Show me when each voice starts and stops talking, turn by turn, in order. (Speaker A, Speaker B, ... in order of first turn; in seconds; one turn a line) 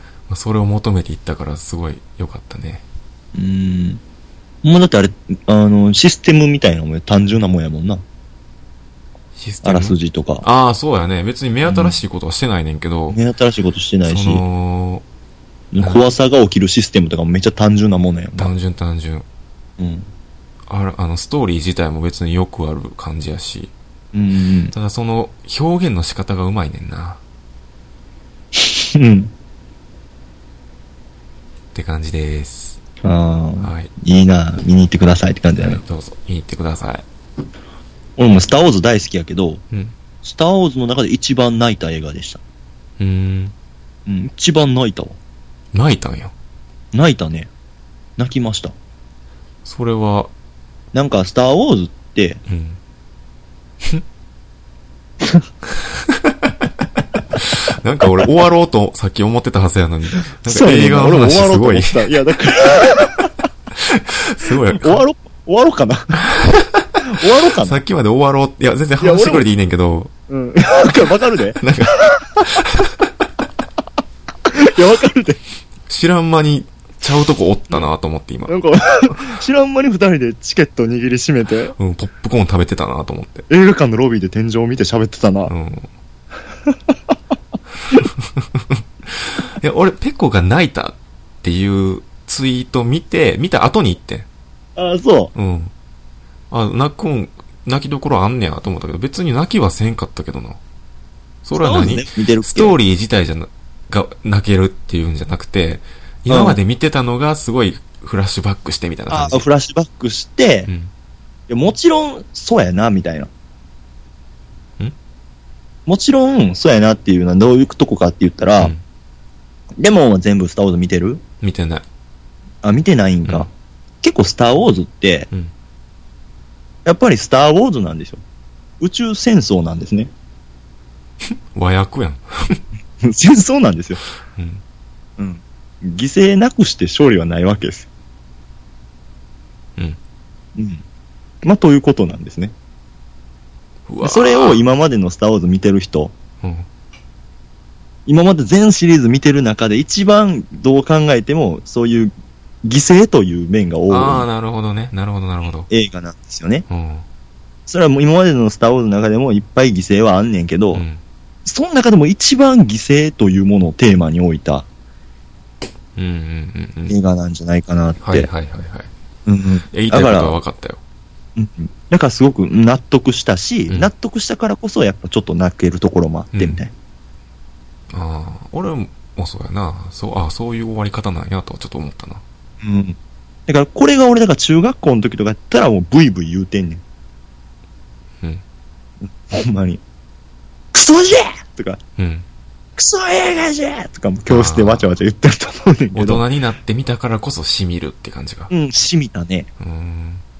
Speaker A: 0.3-2.8
Speaker B: 3.3-4.0
Speaker B: 4.6-8.0
Speaker A: 9.3-13.2
Speaker B: 9.6-10.4
Speaker B: 11.7-12.0
Speaker B: 13.1-14.4
Speaker A: 14.1-15.0
Speaker B: 15.7-18.5
Speaker A: 15.8-16.1
Speaker A: 18.4-19.2
Speaker B: 19.8-20.1
Speaker A: 20.7-23.7
Speaker B: 24.1-24.7
Speaker A: 24.7-27.2
Speaker B: 28.5-29.3
Speaker A: 31.7-32.8
Speaker B: 33.0-35.8
Speaker A: 33.6-33.9
Speaker A: 35.5-37.0
Speaker B: 38.2-39.6
Speaker B: 40.2-42.4
Speaker A: 43.0-43.5
Speaker B: 44.0-45.2
Speaker A: 45.7-46.3
Speaker B: 46.9-47.5
Speaker B: 48.2-48.7
Speaker A: 49.6-50.3
Speaker B: 50.9-52.4
Speaker A: 52.5-52.8
Speaker A: 55.7-56.5
Speaker A: 57.3-62.1
Speaker B: 60.4-63.3
Speaker A: 63.7-65.0
Speaker B: 64.7-66.2
Speaker A: 66.2-70.1
Speaker B: 67.1-67.8
Speaker B: 69.0-69.5
Speaker B: 70.3-72.1
Speaker A: 71.6-73.0
Speaker B: 74.5-75.4
Speaker A: 75.9-78.5
Speaker B: 78.5-81.7
Speaker A: 81.8-83.5
Speaker B: 83.5-85.5
Speaker A: 85.5-85.9
Speaker B: 86.7-86.9
Speaker A: 87.9-94.3
Speaker B: 94.8-95.3
Speaker A: 95.3-95.7
Speaker A: 96.5-100.6
Speaker A: 101.4-109.4
Speaker B: 101.6-102.8
Speaker B: 106.3-106.6
Speaker B: 109.1-110.7
Speaker A: 110.7-110.9
Speaker B: 111.5-113.3
Speaker B: 115.8-118.7
Speaker B: 119.8-121.2
Speaker A: 121.4-121.8
Speaker B: 122.6-123.5
Speaker B: 124.0-125.3
Speaker B: 126.8-128.2
Speaker B: 128.8-130.1
Speaker A: 131.5-132.6
Speaker B: 133.0-134.0
Speaker A: 134.3-134.6
Speaker B: 135.2-137.9
Speaker B: 140.6-140.8
Speaker B: 141.4-142.5
Speaker A: 143.9-144.6
Speaker B: 144.0-146.1
Speaker A: 146.4-146.7
Speaker B: 148.1-152.1
Speaker B: 152.6-154.3
Speaker A: 153.9-155.7
Speaker B: 155.7-156.6
Speaker A: 156.7-157.1
Speaker B: 157.7-160.8
Speaker A: 160.7-161.0
Speaker B: 161.4-164.7
Speaker A: 166.0-167.0
Speaker B: 166.9-168.3
Speaker A: 168.0-168.9
Speaker B: 169.2-170.4
Speaker A: 169.7-170.8
Speaker B: 171.3-176.7
Speaker A: 176.3-176.6
Speaker A: 177.9-182.2
Speaker B: 182.6-186.8
Speaker B: 189.0-189.8
Speaker B: 190.7-191.8
Speaker A: 192.0-192.2
Speaker B: 192.8-196.2
Speaker A: 194.3-194.9
Speaker A: 195.9-198.5
Speaker B: 198.5-199.5
Speaker A: 199.6-200.2